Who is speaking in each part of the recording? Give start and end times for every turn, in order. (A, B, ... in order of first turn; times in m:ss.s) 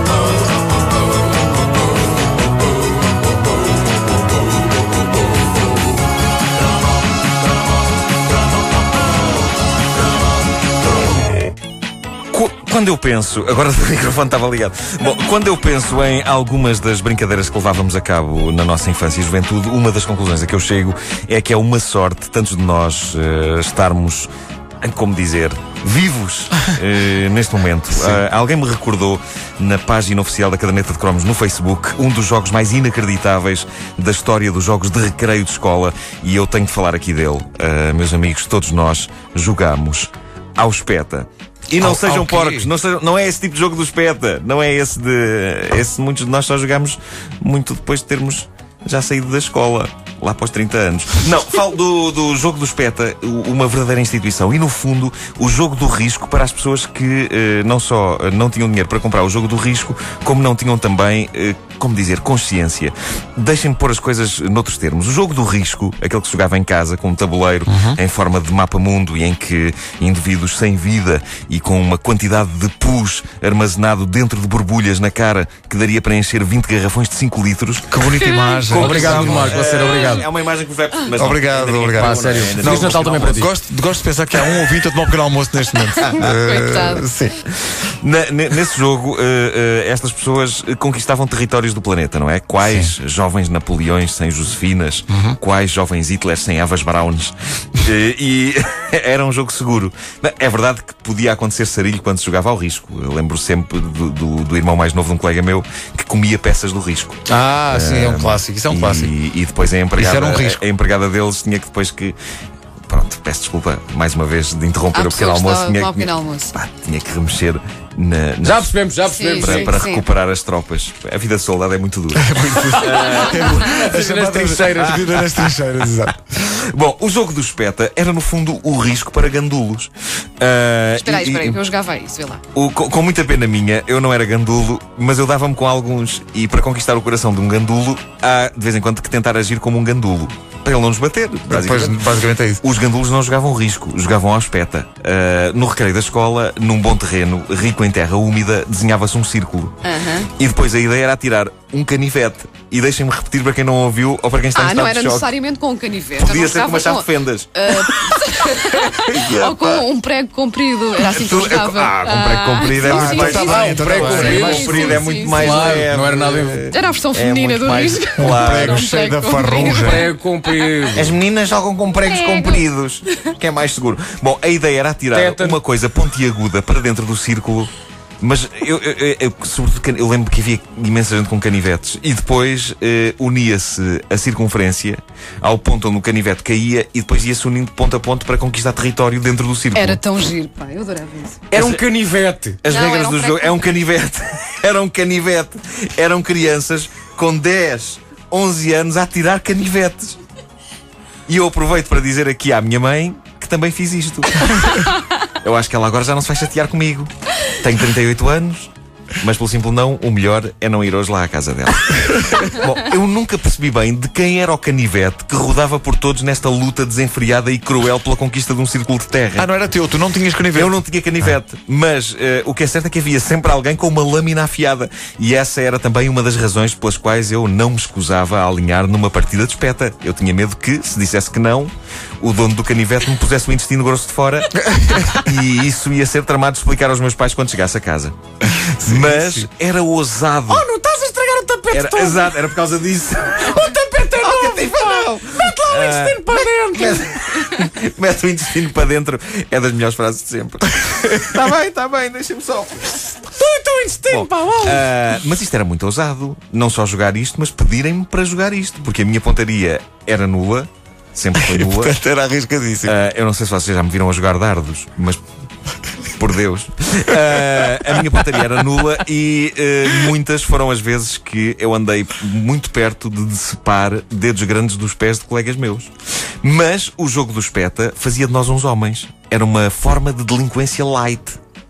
0:12.3-0:24.3 A
0:24.8-1:18.0 A
0:41.8-0:42.7 B
1:07.7-1:08.0 B
1:17.9-1:19.6 B
1:18.1-1:18.8 C
1:18.7-1:23.5 A
1:18.8-1:20.3 D
1:21.2-1:27.3 B
1:22.0-1:23.5 D
1:26.0-1:26.3 A
1:26.1-1:27.1 C
1:27.5-1:52.2 A
1:35.1-1:35.4 B
1:47.3-1:49.1 B
1:50.0-1:50.6 B
1:52.9-1:58.8 A
1:54.9-1:56.5 C
1:58.4-1:59.8 D
1:59.1-2:00.1 C
1:59.4-2:03.9 A
2:02.2-2:06.2 B
2:02.7-2:05.2 D
2:05.0-2:05.5 A
2:06.3-2:11.6 A
2:11.0-2:12.4 C
2:12.5-2:35.3 A
2:21.5-2:22.6 B
2:29.8-2:30.3 C
2:34.5-2:45.8 C
2:36.2-2:38.1 A
2:38.9-2:39.8 A
2:41.0-2:48.9 A
2:42.8-2:44.9 B
2:43.4-2:46.7 D
2:46.7-2:50.6 C
2:48.2-2:50.1 B
2:49.6-2:51.2 D
2:50.9-2:57.7 A
2:52.0-2:52.6 C
2:55.1-2:55.6 D
2:58.2-3:10.0 A
3:09.8-3:11.5 C
3:11.5-3:11.8 A
3:11.5-3:12.6 D
3:12.6-3:20.2 A
3:12.7-3:13.6 C
3:21.3-3:24.8 A
3:25.4-3:28.7 A
3:29.2-3:39.5 A
3:39.4-3:40.8 B
3:40.5-3:54.6 A
3:54.8-3:55.1 B
3:55.1-4:00.7 A
3:58.6-3:59.4 B
4:00.5-4:02.4 D
4:01.7-4:13.1 A
4:03.4-4:07.4 D
4:13.2-4:14.9 D
4:14.1-4:22.0 A
4:21.4-4:22.9 B
4:22.8-4:25.2 A
4:26.1-4:35.9 A
4:36.4-4:41.4 A